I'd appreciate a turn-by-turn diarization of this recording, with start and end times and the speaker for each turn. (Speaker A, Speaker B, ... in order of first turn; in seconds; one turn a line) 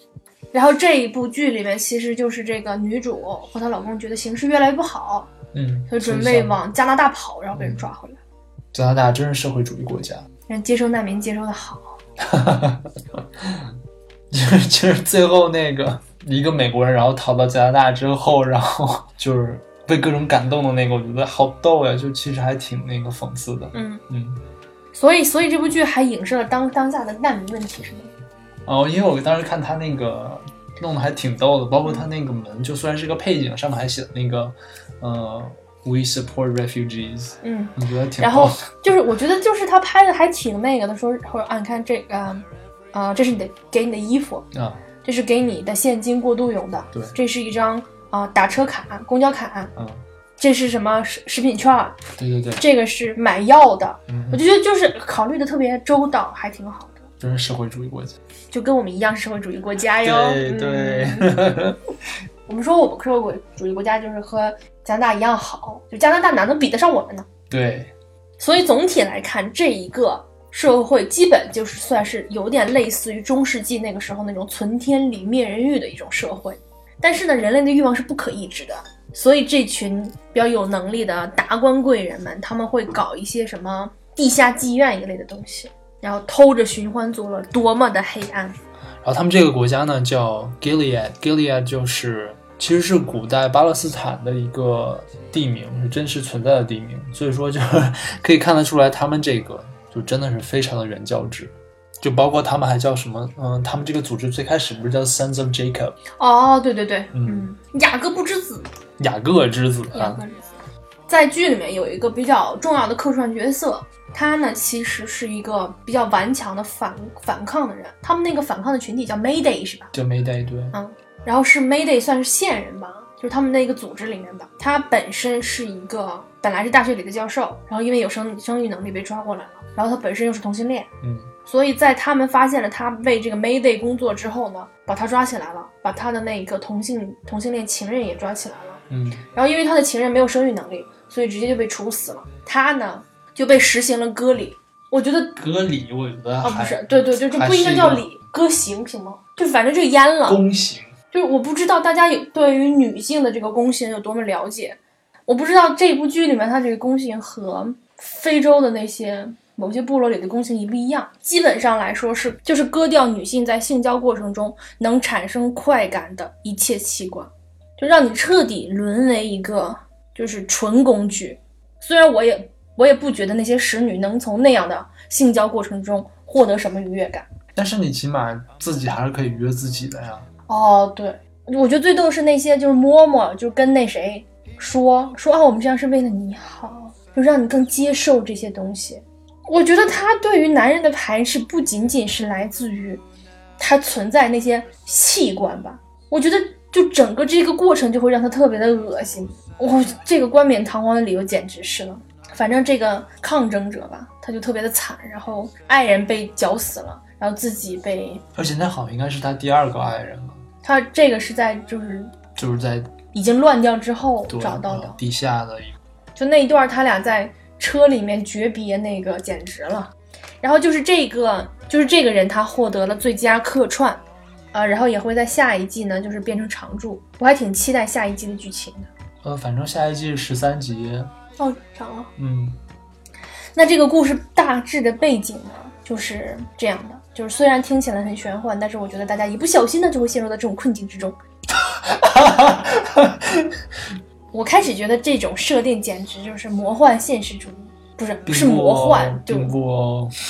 Speaker A: 0.5-5.3
Speaker B: 5.5-6.6
Speaker A: 5.9-8.2
Speaker B: 7.6-7.9
Speaker B: 8.7-10.3
Speaker A: 10.5-12.0
Speaker B: 12.2-13.8
Speaker B: 14.3-24.4
Speaker A: 23.7-24.0
Speaker A: 24.9-28.1
Speaker B: 28.6-38.9
Speaker A: 37.4-44.5
Speaker B: 44.5-44.8
Speaker A: 45.0-49.7
Speaker B: 49.8-50.0
Speaker A: 50.4-52.0
Speaker B: 52.2-52.6
Speaker A: 52.6-57.0
Speaker B: 54.1-54.4
Speaker B: 57.2-58.2
Speaker A: 58.5-61.5
Speaker B: 60.0-61.8
Speaker A: 62.5-67.3
Speaker B: 67.5-67.9
Speaker A: 68.4-88.6
Speaker B: 89.0-106.0
Speaker A: 106.2-108.7
Speaker B: 107.1-107.5
Speaker B: 109.0-110.2
Speaker A: 109.9-119.9
Speaker B: 119.9-120.8
Speaker A: 120.7-130.9
Speaker B: 131.0-131.3
Speaker A: 131.5-138.8
Speaker B: 138.9-139.2
Speaker A: 139.3-145.4
Speaker B: 145.4-148.1
Speaker A: 146.4-150.4
Speaker B: 150.3-150.9
Speaker A: 151.1-177.3
Speaker B: 177.6-180.3
Speaker A: 180.5-193.0
Speaker A: 193.6-208.2
Speaker B: 208.3-210.4
Speaker A: 210.6-212.2
Speaker B: 212.4-213.0
Speaker A: 213.1-215.0
Speaker B: 214.3-215.8
Speaker A: 216.2-224.0
Speaker A: 224.5-228.9
Speaker B: 229.2-231.1
Speaker A: 231.4-232.1
Speaker B: 232.2-232.6
Speaker A: 233.6-241.1
Speaker B: 241.5-243.6
Speaker A: 244.3-249.6
Speaker B: 248.3-250.1